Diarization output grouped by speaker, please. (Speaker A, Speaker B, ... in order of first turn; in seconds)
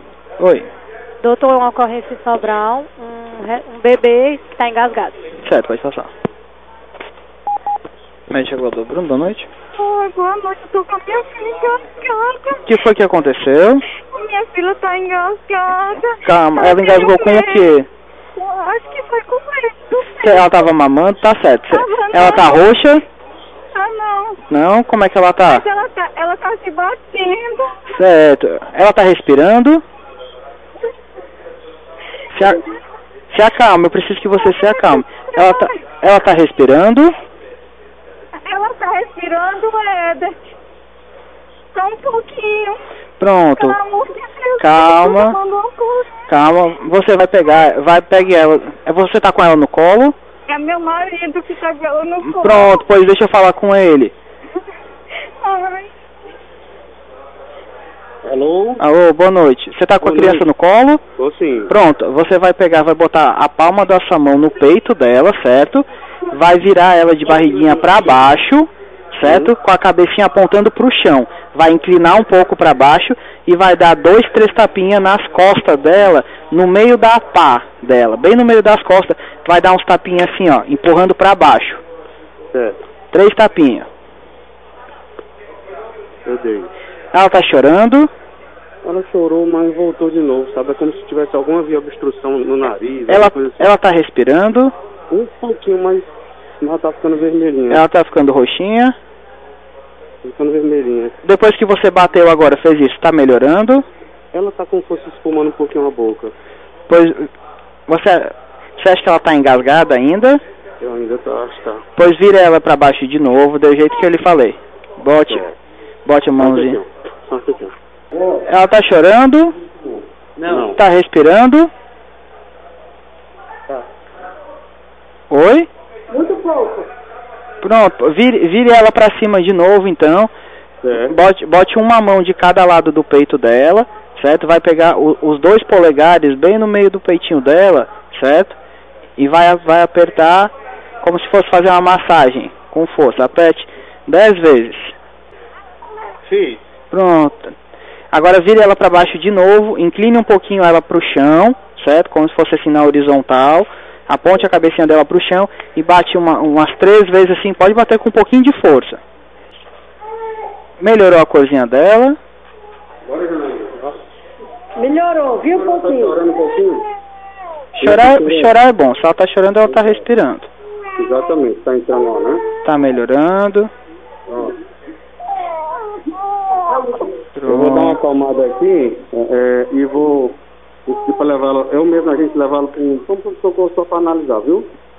Speaker A: 0.4-0.7, 5.4-6.1, 8.3-9.5, 12.7-13.8, 16.2-17.9, 20.2-23.0, 24.5-25.6, 27.9-29.8, 32.3-32.6, 33.3-37.1, 43.2-43.8, 44.6-45.4, 46.3-50.2, 52.2-54.1, 58.8-61.0, 61.7-81.8, 83.1-83.9, 87.1-88.1, 93.1-94.7, 97.7-99.0, 101.2-103.8, 106.9-107.3, 107.9-110.4, 112.0-115.4, 116.0-116.8, 118.5-119.6, 120.7-121.7, 125.3-125.7, 127.6-130.3, 131.0-138.6, 139.2-145.0, 146.9-147.5, 148.1-159.0, 160.8-162.2, 167.8-170.5, 172.7-173.7, 177.4-178.0
Speaker B: 1.2-5.2
Speaker C: 9.8-12.7, 14.1-17.7, 18.4-20.7, 21.7-22.7, 23.7-24.4, 25.5-27.9, 32.4-32.8, 34.4-35.8, 38.5-40.4, 41.7-42.8, 43.5-46.2, 50.5-52.9, 55.4-55.9
Speaker D: 58.2-58.8, 60.0-60.5, 61.2-61.7, 67.2-68.2, 69.2-69.5, 82.5-82.8, 86.3-86.7, 88.8-93.7, 95.1-96.1, 96.6-97.8, 100.2-101.1, 104.3-106.3, 110.8-111.8, 115.3-115.6, 116.4-117.7, 120.5-120.8, 130.8-131.2, 146.3-146.6, 163.1-164.0, 165.5-166.9, 167.8-168.5, 169.7-170.0, 171.0-172.4, 174.3-174.6, 176.7-184.7
Speaker E: 126.1-126.9, 164.8-166.2